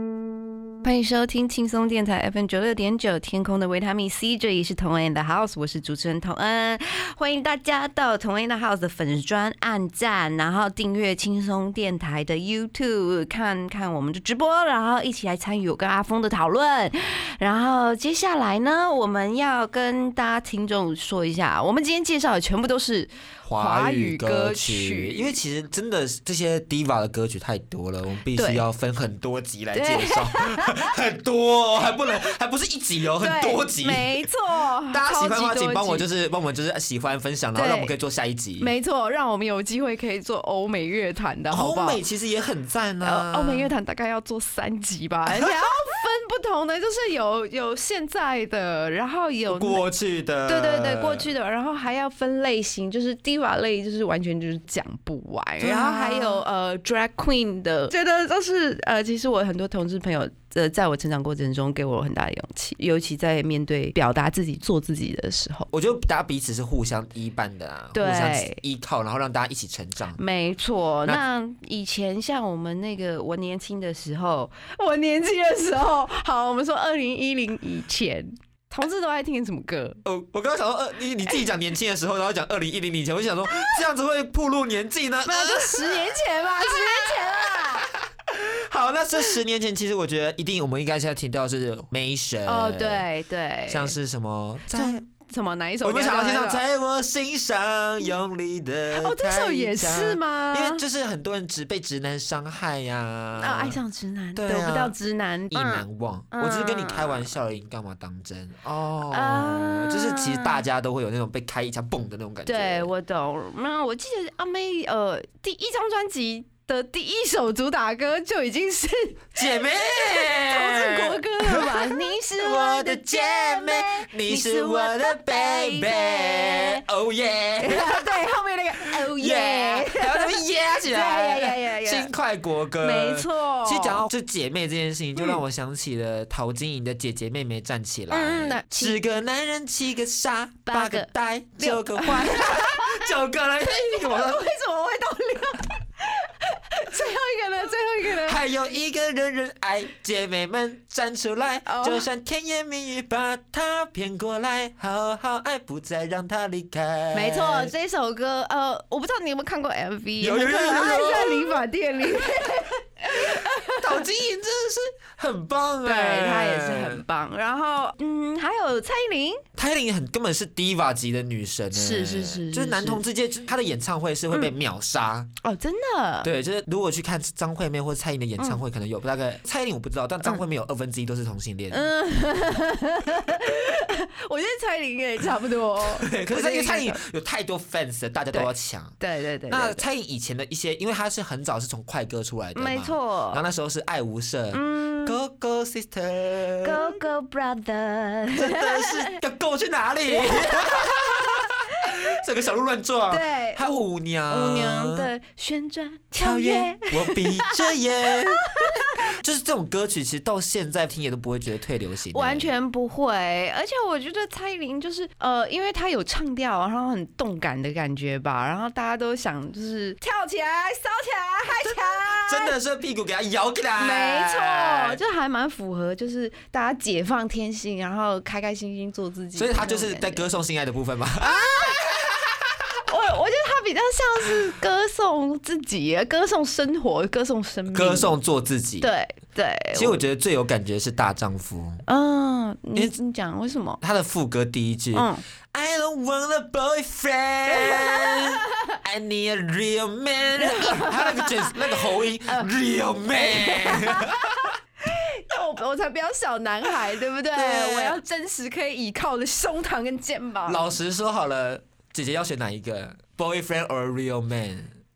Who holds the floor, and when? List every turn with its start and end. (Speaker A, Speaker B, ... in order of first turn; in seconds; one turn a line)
Speaker A: 0.8-25.4
Speaker B: 23.4-34.2
Speaker A: 28.4-28.6
Speaker A: 29.7-30.9
Speaker A: 33.2-36.1
Speaker B: 34.9-38.7
Speaker A: 37.5-37.9
Speaker A: 38.6-42.0
Speaker B: 41.5-43.7
Speaker A: 43.0-49.8
Speaker B: 49.5-51.3
Speaker A: 50.5-65.7
Speaker B: 55.6-56.4
Speaker B: 65.7-70.2
Speaker A: 67.9-68.6
Speaker A: 70.2-80.0
Speaker B: 80.0-93.1
Speaker A: 85.2-87.9
Speaker A: 92.5-94.0
Speaker B: 93.7-95.0
Speaker A: 94.7-96.6
Speaker B: 95.8-103.8
Speaker A: 98.9-100.8
Speaker A: 103.4-107.3
Speaker B: 104.3-105.0
Speaker B: 105.5-112.9
Speaker A: 109.1-110.6
Speaker A: 112.5-126.8
Speaker B: 119.4-128.2
Speaker A: 127.6-132.1
Speaker B: 129.0-144.5
Speaker A: 132.8-134.1
Speaker A: 138.1-139.0
Speaker A: 140.7-143.1
Speaker A: 143.7-148.4
Speaker B: 148.2-157.7
Speaker A: 151.7-152.1
Speaker A: 157.1-164.0
Speaker B: 160.2-161.6
Speaker B: 163.1-167.0
Speaker A: 165.8-169.4
Speaker B: 169.6-175.3
Speaker A: 171.7-173.0
Speaker A: 175.4-176.3
Speaker B: 176.2-181.9
Speaker A: 181.7-187.0
Speaker B: 185.8-189.0
Speaker A: 188.3-189.8
Speaker B: 189.5-196.8
Speaker A: 192.6-193.4
Speaker A: 194.5-195.2
Speaker A: 196.6-199.1
Speaker B: 198.3-205.1
Speaker A: 200.1-201.8
Speaker A: 203.1-203.6
Speaker A: 204.3-207.7
Speaker B: 206.2-212.5
Speaker A: 208.3-209.0
Speaker A: 212.1-222.6
Speaker B: 221.6-225.0
Speaker A: 223.8-230.3
Speaker B: 229.4-232.5
Speaker A: 231.2-231.9
Speaker A: 232.9-238.2
Speaker B: 237.7-238.9
Speaker A: 238.8-240.0
Speaker B: 239.7-241.8
Speaker A: 241.9-243.8
Speaker B: 243.8-254.6
Speaker A: 244.9-245.2
Speaker A: 247.5-248.7
Speaker A: 250.4-252.5
Speaker A: 253.1-260.6
Speaker B: 257.3-258.0
Speaker B: 260.5-264.8